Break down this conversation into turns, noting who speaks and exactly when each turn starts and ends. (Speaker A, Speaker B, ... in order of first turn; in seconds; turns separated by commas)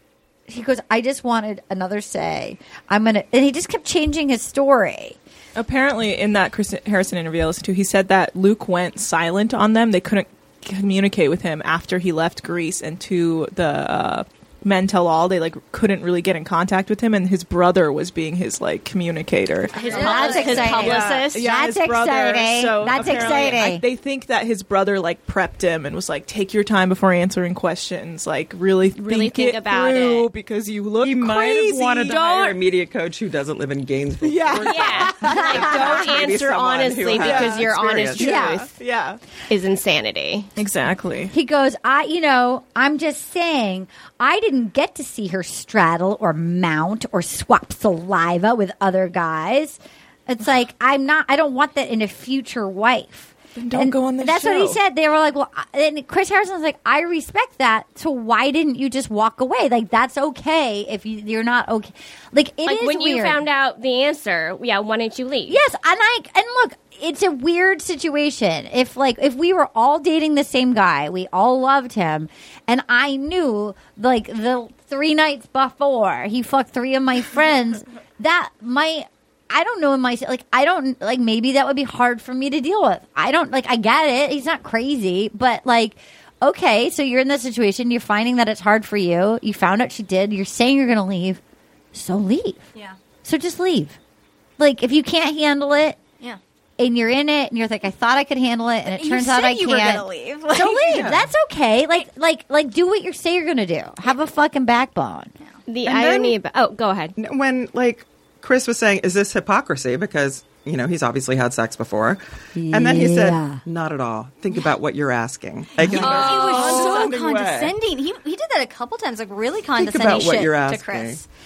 Speaker A: 0.5-5.2, Speaker B: 5.5-32.2, Speaker C: 19.7-21.3, Speaker D: 19.7-21.4, Speaker A: 19.9-23.8, Speaker D: 28.9-30.3, Speaker E: 31.0-38.4, Speaker D: 32.0-32.6, Speaker B: 34.2-36.4, Speaker D: 34.6-38.7, Speaker A: 35.3-35.7, Speaker B: 37.1-39.2, Speaker A: 38.2-38.6, Speaker D: 39.5-40.5, Speaker B: 40.6-41.3, Speaker A: 41.3-63.4, Speaker B: 53.5-54.8, Speaker D: 62.6-65.6, Speaker A: 65.5-91.4, Speaker A: 91.9-92.6, Speaker A: 93.2-94.0, Speaker A: 94.6-96.0, Speaker A: 96.8-105.3, Speaker C: 98.9-101.1, Speaker E: 100.9-101.3, Speaker D: 105.7-107.1, Speaker E: 105.8-106.4, Speaker E: 107.2-117.8, Speaker A: 112.5-113.6, Speaker A: 115.8-116.1, Speaker C: 115.9-121.2, Speaker D: 115.9-117.1, Speaker E: 119.8-121.2